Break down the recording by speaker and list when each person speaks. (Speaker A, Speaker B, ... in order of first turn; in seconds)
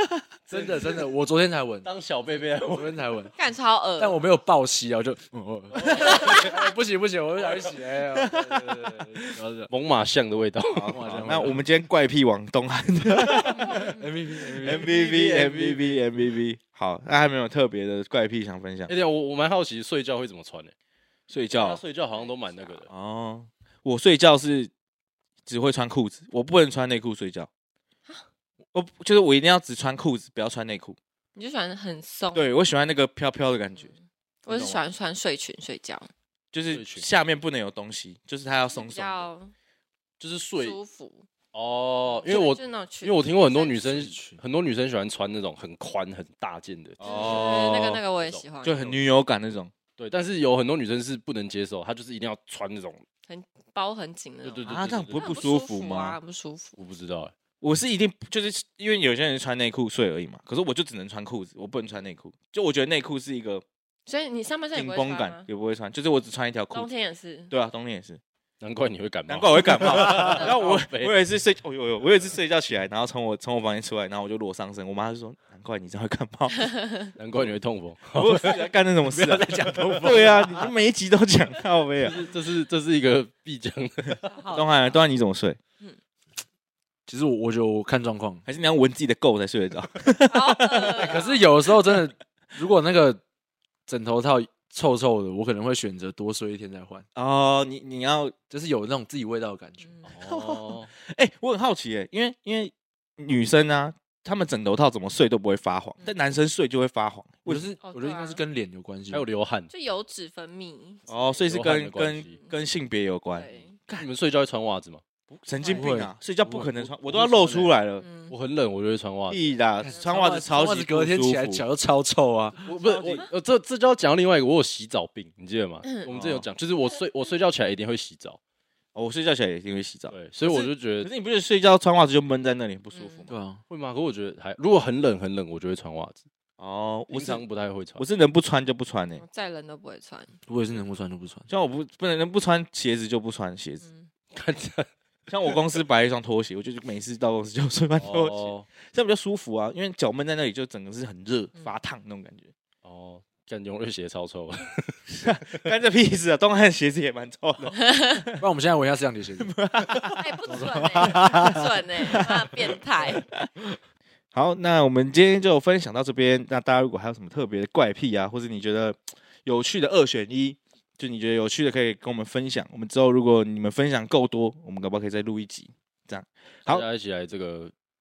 Speaker A: 0.5-1.9, 2.7-3.4, 4.0-9.7, 10.9-11.6, 13.4-14.9, 43.9-44.4, 79.0-80.7, 87.1-88.4, 91.0-93.2, 93.9-97.0, 98.5-99.9, 107.5-109.3, 115.7-116.6, 119.8-122.7, 133.3-133.6, 140.5-141.5, 158.4-159.6, 160.5-161.4
Speaker B: 0.5-0.8, 1.8-3.1, 5.8-6.6, 9.7-11.5, 14.6-16.0, 18.9-20.7, 21.5-22.9, 36.7-37.1, 40.2-40.8, 41.5-49.0, 50.0-53.0, 54.4-55.5, 56.8-57.3, 68.6-71.2, 77.2-78.6, 82.0-84.3, 100.1-100.9, 109.1-109.7, 111.5-112.4, 114.0-115.0, 116.5-117.8, 118.3-119.4, 122.7-128.4, 130.1-131.1, 133.7-136.2, 137.1-138.0, 144.3-144.9, 148.0-148.7, 152.8-155.5, 176.7-177.7
Speaker C: 3.4-4.2, 6.1-6.5, 22.1-22.9, 31.4-32.5, 33.8-36.1, 38.7-39.5, 40.6-41.3, 42.2-44.1, 47.0-48.9, 53.3-54.6, 55.1-56.8, 64.1-65.5, 66.7-67.5, 76.5-77.1, 84.3-85.0, 90.3-91.5, 99.8-100.1, 107.8-108.4, 109.7-111.4, 112.3-112.6, 113.3-113.8, 115.6-115.9, 118.0-118.3, 125.8-126.1, 132.9-133.2, 139.2-140.4, 143.8-144.1, 160.2-163.3
Speaker D: 10.7-14.0, 14.6-18.9, 21.3-21.8, 22.9-24.7, 25.5-27.5, 28.7-31.0, 32.3-33.9, 34.5-34.8, 36.5-39.3, 47.0-48.0, 48.6-49.7, 54.6-56.2, 57.6-63.6, 64.8-66.9, 67.5-68.2, 69.3-76.7, 78.1-82.2, 84.5-85.6, 88.5-91.1, 97.2-98.3, 100.2-107.7, 111.1-114.1, 115.3-118.0, 119.3-121.6, 122.7-123.3, 126.1-126.5, 128.9-133.3, 136.6-137.4, 138.0-139.2, 141.5-143.8, 145.3-152.5, 155.1-158.4, 159.4-163.5, 164.3-176.9